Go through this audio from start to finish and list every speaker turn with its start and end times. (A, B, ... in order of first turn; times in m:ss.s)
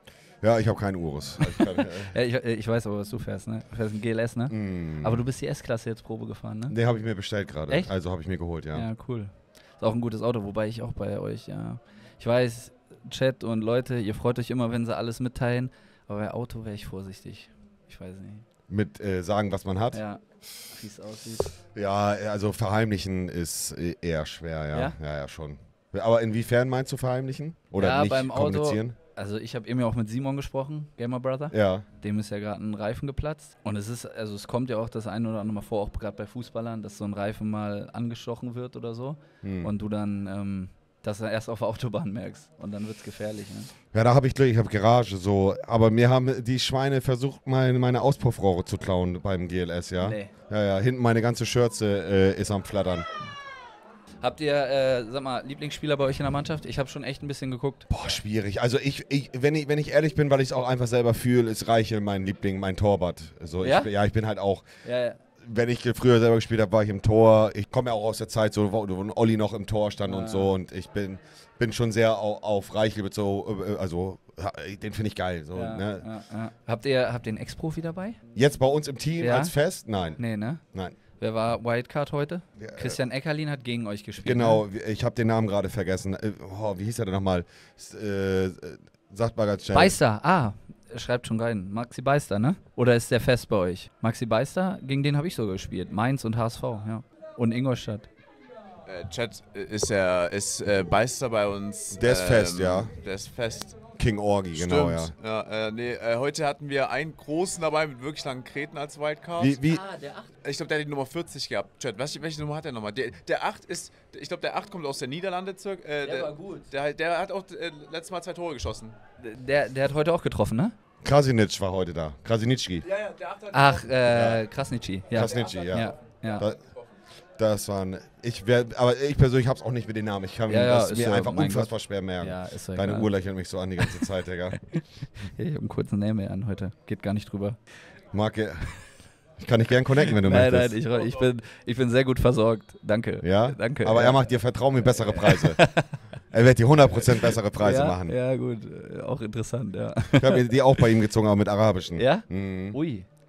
0:00.4-0:02.2 A
0:01.6-0:06.8 B
0:04.5-0:05.2 A
0:06.7-0:08.9 A
0:08.7-0:18.5 B
0:18.7-0:20.0 A
0:19.9-0:21.5 B
0:21.7-0:29.0 A
0:27.8-0:43.7 B
0:31.5-0:31.9 A
0:39.4-0:39.7 A
0:43.9-0:53.1 A
0:50.0-0:50.3 B
0:54.2-0:57.9 B
0:57.9-1:04.8 A
1:03.6-1:03.9 B
1:04.8-1:05.2 B
1:05.4-1:16.1 A
1:10.0-1:10.5 B
1:15.5-1:18.2 B
1:18.3-1:21.0 A
1:19.2-1:24.6 B
1:22.6-1:23.0 A
1:24.2-1:30.0 A
1:29.7-1:38.1 B
1:38.9-1:43.8 C
1:41.9-1:42.9 A
1:44.0-1:45.1 A
1:44.6-1:49.6 C
1:49.4-1:49.8 A
1:49.7-1:50.3 B
1:50.4-1:59.0 C
1:56.0-1:56.7 B
1:59.2-2:00.8 B
2:01.0-2:02.9 A
2:02.8-2:04.1 C
2:03.5-2:06.5 B
2:04.0-2:04.5 A
2:05.1-2:06.6 A
2:05.1-2:07.0 C
2:07.4-2:14.6 A
2:10.5-2:13.1 B
2:13.8-2:14.0 B
2:15.3-2:17.6 B
2:18.1-2:20.8 A
2:20.2-2:26.1 B
2:20.9-2:21.3 C
2:23.2-2:28.2 A
2:27.6-2:30.8 B
2:30.2-2:32.8 A
2:32.0-2:33.1 B